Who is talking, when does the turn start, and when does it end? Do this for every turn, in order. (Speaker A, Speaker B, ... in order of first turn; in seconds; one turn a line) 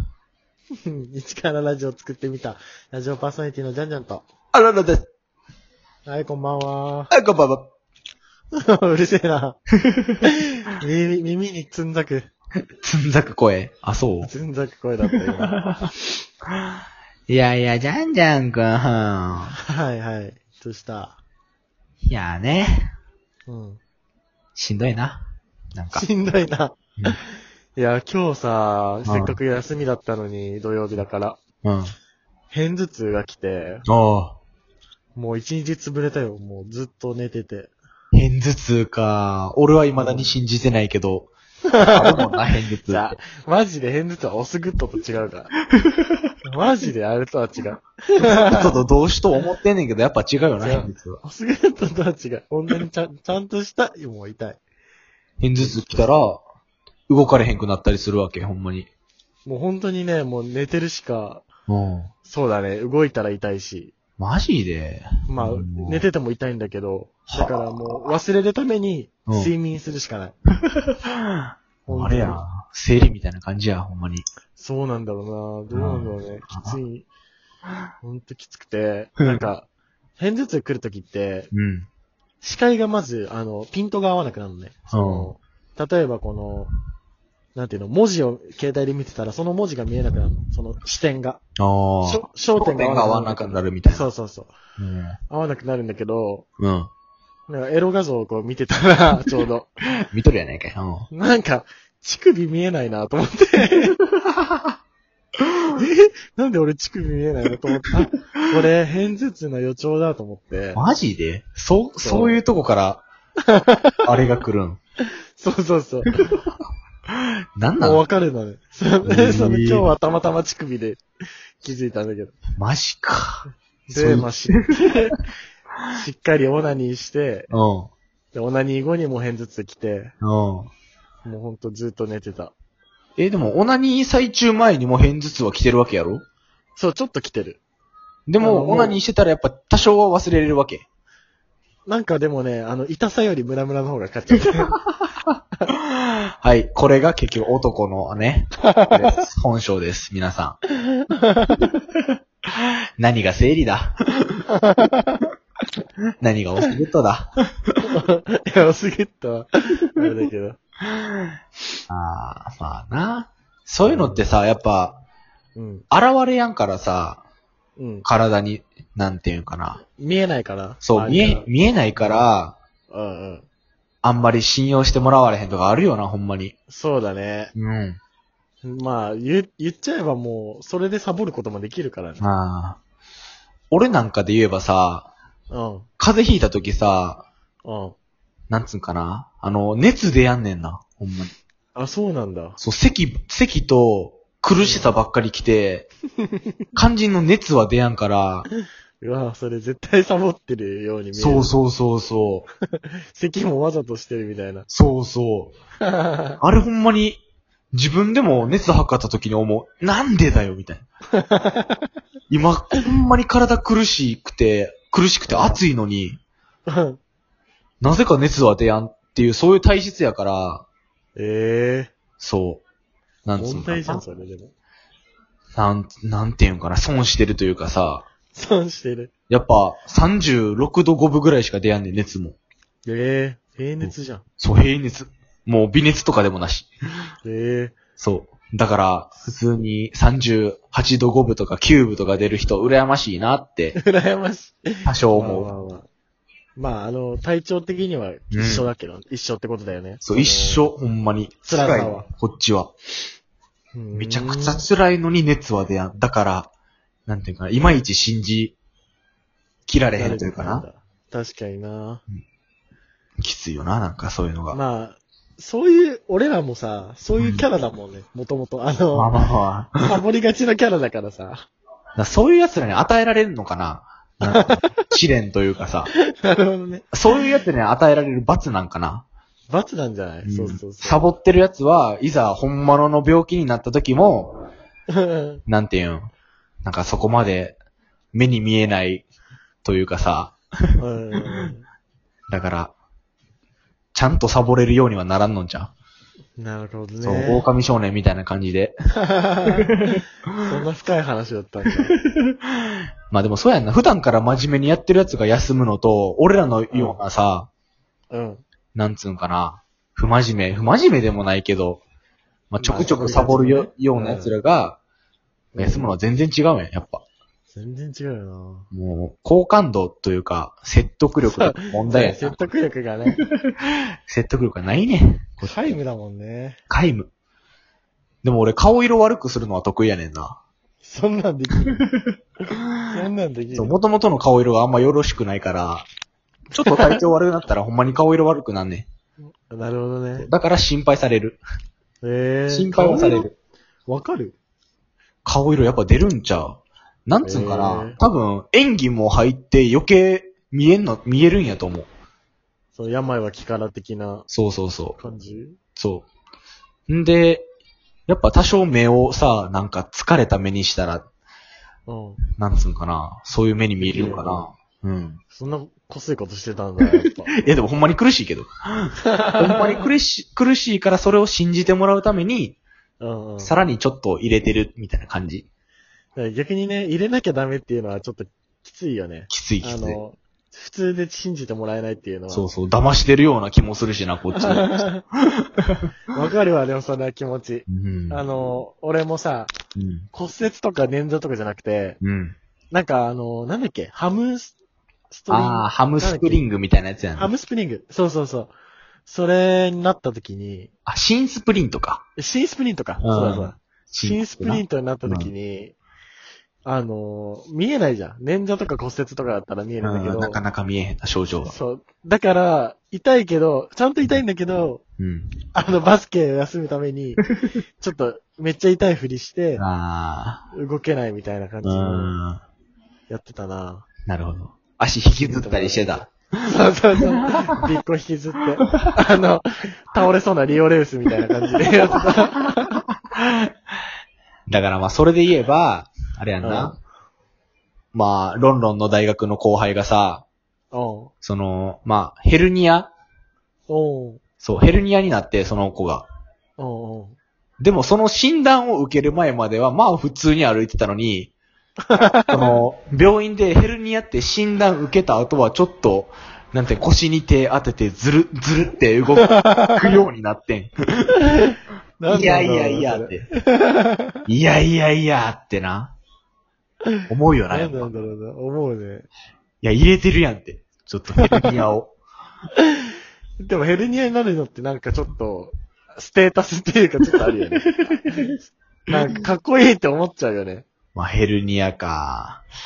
Speaker A: 0.8-4.2
Speaker B: 4.5-5.1
Speaker A: 6.0-7.1
Speaker B: 7.1-7.7
Speaker A: 8.6-9.6
Speaker A: 10.2-12.3
Speaker B: 12.8-14.3
Speaker A: 14.2-15.7
Speaker B: 15.5-15.9
Speaker B: 17.3-19.6
Speaker A: 19.7-21.2
Speaker B: 22.0-22.9
Speaker A: 23.5-23.8
Speaker B: 24.5-26.1
Speaker A: 25.9-27.2
Speaker A: 27.7-31.4
Speaker B: 29.1-29.4
Speaker B: 31.6-31.9
Speaker A: 32.5-33.8
Speaker B: 33.9-34.4
Speaker A: 35.1-37.7
Speaker B: 38.1-41.3
Speaker A: 39.9-40.3
Speaker A: 41.7-42.3
Speaker B: 41.9-43.2
Speaker A: 42.9-45.5
Speaker A: 46.4-48.8
Speaker B: 48.2-51.2
Speaker A: 50.6-54.6
Speaker B: 55.4-56.4
Speaker A: 55.6-56.1
Speaker B: 57.1-58.9
Speaker A: 59.4-61.5
Speaker B: 61.7-62.1
Speaker A: 62.2-63.9
Speaker B: 64.2-66.0
Speaker A: 65.3-70.3
Speaker B: 67.3-68.0
Speaker B: 69.3-69.5
Speaker B: 70.7-74.2
Speaker A: 71.9-72.4
Speaker A: 74.6-77.1
Speaker B: 75.7-76.8
Speaker A: 78.0-81.5
Speaker B: 81.5-81.9
Speaker A: 82.4-86.7
Speaker B: 84.9-85.3
Speaker A: 87.5-91.4
Speaker B: 91.6-94.1
Speaker A: 92.0-94.5
Speaker B: 94.8-95.2
Speaker A: 95.3-96.5
Speaker B: 96.6-96.9
Speaker A: 97.5-99.7
Speaker B: 100.1-101.1
Speaker A: 101.1-104.0
Speaker A: 105.8-110.8
Speaker B: 110.7-113.0
Speaker A: 112.0-112.4
Speaker A: 113.5-114.0
Speaker B: 114.0-114.8
Speaker A: 115.3-116.2
Speaker B: 117.6-118.0
Speaker A: 117.8-121.0
Speaker B: 119.0-119.9
Speaker A: 121.6-122.4
Speaker B: 122.6-125.2
Speaker A: 123.9-125.2
Speaker A: 125.9-127.5
Speaker B: 127.5-127.9
Speaker A: 128.3-130.1
Speaker B: 130.2-130.7
Speaker A: 131.2-132.5
Speaker B: 133.2-136.2
Speaker A: 136.8-137.6
Speaker B: 138.3-140.8
Speaker A: 138.4-139.0
Speaker A: 141.8-144.8
Speaker B: 145.9-150.6
Speaker A: 148.6-149.2
Speaker A: 151.1-151.7
Speaker B: 152.6-154.4
Speaker A: 154.6-155.3
Speaker B: 156.2-157.8
Speaker A: 157.9-160.6
Speaker B: 161.9-165.0
Speaker A: 163.8-164.2
Speaker A: 165.5-165.8
Speaker B: 165.9-167.2
Speaker A: 167.8-168.1
Speaker B: 168.0-169.8
Speaker A: 169.9-172.3
Speaker B: 170.8-172.6
Speaker A: 172.9-173.5
Speaker B: 174.0-176.6
Speaker A: 176.7-177.5
Speaker B: 177.5-178.0
Speaker A: 178.6-182.2
Speaker B: 182.2-182.8
Speaker B: 183.7-185.1
Speaker A: 185.5-185.9
Speaker B: 186.0-187.2
Speaker A: 187.6-187.9
Speaker B: 188.5-191.3
Speaker A: 191.7-192.6
Speaker B: 192.6-195.9
Speaker A: 194.6-194.9
Speaker B: 196.7-198.5
Speaker A: 199.0-201.5
Speaker B: 201.1-202.4
Speaker A: 202.7-204.7
Speaker B: 204.7-205.6
Speaker A: 205.8-206.3
Speaker B: 206.4-207.2
Speaker B: 207.7-210.9
Speaker A: 211.2-211.9
Speaker B: 212.3-216.2
Speaker A: 215.2-215.6
Speaker A: 216.7-217.0
Speaker B: 217.8-220.6
Speaker A: 221.2-221.9
Speaker B: 222.2-222.6
Speaker B: 223.2-224.0
Speaker A: 223.3-224.5
Speaker B: 225.6-228.1
Speaker A: 228.3-229.1
Speaker B: 229.3-232.3
Speaker A: 232.8-234.2
Speaker B: 233.8-236.7
Speaker A: 237.2-237.8
Speaker B: 238.0-243.8
Speaker A: 243.7-245.9
Speaker B: 244.8-245.5
Speaker A: 246.5-250.6
Speaker B: 248.3-248.7
Speaker B: 250.0-252.7
Speaker A: 251.4-252.1
Speaker A: 253.7-254.7
Speaker B: 253.9-256.5
Speaker B: 257.1-258.6
Speaker B: 259.7-260.6
Speaker A: 259.9-262.0
Speaker B: 263.2-264.6
Speaker A: 264.5-269.2
Speaker B: 267.1-267.4
Speaker B: 268.9-269.9
Speaker A: 269.8-271.5
Speaker B: 271.9-275.9
Speaker A: 274.2-274.7
Speaker A: 275.9-277.3
Speaker B: 276.9-279.1
Speaker A: 279.5-281.0
Speaker B: 280.2-284.4
Speaker A: 284.9-285.4
Speaker B: 285.5-286.1
Speaker B: 286.6-287.6
Speaker B: 288.1-289.1
Speaker B: 289.6-290.4
Speaker A: 290.8-291.6
Speaker B: 292.3-292.7
Speaker B: 293.9-295.7
Speaker A: 296.4-297.5
Speaker B: 297.0-298.7
Speaker A: 299.0-299.9
Speaker B: 299.7-300.4
Speaker A: 300.4-301.9
Speaker B: 303.1-307.5
Speaker A: 306.7-307.0
Speaker A: 308.1-308.4
Speaker B: 308.7-311.8
Speaker B: 312.5-314.8
Speaker A: 312.6-314.3
Speaker A: 315.5-315.9
Speaker B: 315.6-317.0
Speaker A: 317.5-318.7
Speaker B: 318.7-322.3
Speaker A: 321.2-323.2
Speaker B: 323.2-323.5
Speaker B: 324.1-325.6
Speaker A: 325.4-326.6
Speaker B: 326.7-327.1
Speaker B: 328.2-330.4
Speaker A: 330.8-331.8
Speaker A: 332.9-333.7
Speaker B: 333.5-335.9
Speaker B: 336.5-338.9
Speaker A: 336.6-337.0
Speaker A: 339.5-340.3
Speaker B: 340.2-341.4
Speaker A: 342.0-343.3
Speaker B: 342.5-343.3
Speaker A: 343.9-344.4
Speaker B: 345.2-351.9
Speaker A: 347.2-348.0
Speaker A: 352.7-354.3
Speaker B: 354.3-355.0
Speaker A: 354.9-355.6
Speaker B: 355.8-356.1
Speaker B: 356.9-357.5
Speaker B: 358.1-361.1
Speaker A: 361.9-362.2
Speaker B: 362.4-365.2
Speaker A: 363.8-364.5
Speaker A: 365.3-367.4
Speaker B: 367.0-372.6
Speaker A: 369.1-369.8
Speaker A: 373.0-373.5
Speaker B: 373.4-375.4
Speaker A: 376.1-382.5
Speaker B: 379.3-380.0
Speaker B: 382.3-385.8
Speaker A: 384.4-385.0
Speaker A: 386.1-389.6
Speaker B: 387.7-388.2
Speaker B: 389.8-390.1
Speaker A: 390.1-392.0
Speaker B: 392.0-392.4
Speaker A: 392.7-394.5
Speaker A: 395.1-396.4
Speaker B: 395.3-397.3
Speaker A: 397.1-398.5
Speaker A: 399.1-400.7
Speaker B: 400.9-402.0
Speaker A: 402.2-405.7
Speaker B: 403.0-405.3
Speaker A: 406.6-410.4
Speaker B: 409.8-411.5
Speaker A: 411.4-414.8
Speaker B: 415.0-415.3
Speaker A: 415.5-417.2
Speaker A: 417.8-419.6
Speaker B: 419.6-420.4
Speaker A: 420.5-422.1
Speaker B: 421.6-422.4
Speaker A: 423.1-423.9
Speaker B: 424.1-426.4
Speaker A: 425.2-432.8
Speaker B: 433.1-433.5
Speaker B: 434.5-436.8
Speaker A: 436.4-436.8
Speaker B: 437.9-440.2
Speaker A: 440.7-441.1
Speaker B: 441.2-442.9
Speaker A: 443.7-444.2
Speaker B: 444.4-446.1
Speaker A: 446.6-447.2
Speaker B: 447.6-451.3
Speaker A: 451.9-452.6
Speaker B: 452.3-461.1
Speaker A: 459.2-460.0
Speaker A: 462.0-464.2
Speaker B: 462.1-463.2
Speaker B: 464.2-465.9
Speaker B: 467.1-467.9
Speaker A: 467.5-469.1
Speaker B: 469.6-471.9
Speaker A: 471.1-471.6
Speaker A: 473.4-478.3
Speaker B: 477.9-478.2
Speaker A: 478.9-480.7
Speaker B: 480.9-482.4